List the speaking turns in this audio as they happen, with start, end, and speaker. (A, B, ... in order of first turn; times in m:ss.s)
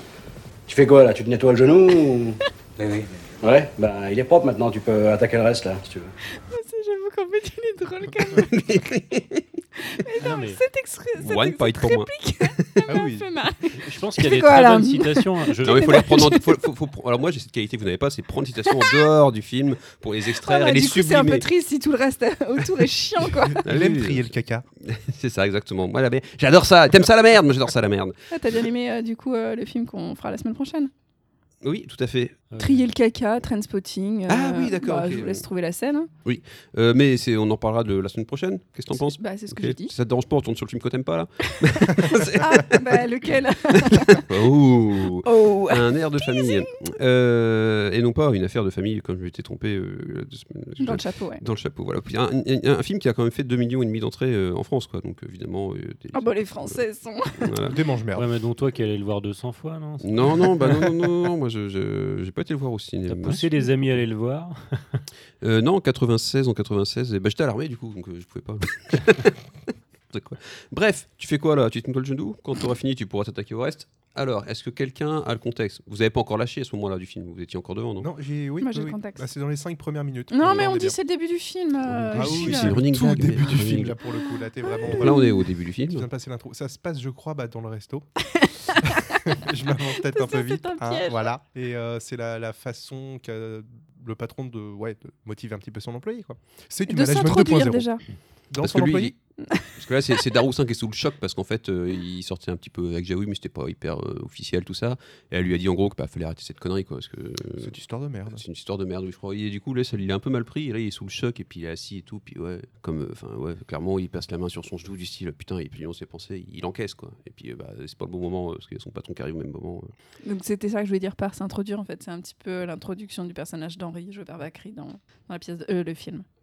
0:00.7-0:06.1 A
0:06.3-0:08.8 B
0:08.5-0:09.5 C
0:09.8-0:16.5 B
0:10.2-0:10.6 D
0:11.2-0:12.8 C
0:12.9-0:13.3 E
0:13.8-0:16.2 D
0:15.6-0:21.5 C
0:20.4-0:23.6 B
0:23.4-0:24.7 E
0:23.6-0:28.2 C
0:28.3-0:30.9 B
0:31.6-0:32.4 C
0:32.5-0:32.9 D
0:32.6-0:36.1 B
0:34.3-0:35.4 C
0:36.2-0:43.0 C
0:38.9-0:40.0 B
0:42.4-0:44.3 B
0:43.7-0:56.8 C
0:45.2-0:46.7 B
0:50.8-0:51.4 B
0:56.1-0:57.5 B
0:57.4-0:57.8 C
0:57.6-0:58.3 E
0:58.2-1:00.9 D
1:00.0-1:04.1 C
1:03.1-1:05.0 D
1:05.4-1:09.4 C
1:10.1-1:18.1 C
1:18.0-1:21.0 E
1:18.6-1:19.3 B
1:20.3-1:22.8 B
1:21.9-1:24.0 C
1:22.1-1:25.2 E
1:24.7-1:25.4 B
1:24.9-1:26.1 C
1:25.9-1:28.1 E
1:28.4-1:29.2 B
1:28.9-1:37.9 E
1:30.0-1:31.4 B
1:36.9-1:38.0 B
1:38.5-1:39.1 E
1:38.6-1:47.8 C
1:39.4-1:39.7 B
1:47.6-1:48.4 E
1:48.3-1:59.9 C
2:00.2-2:06.2 B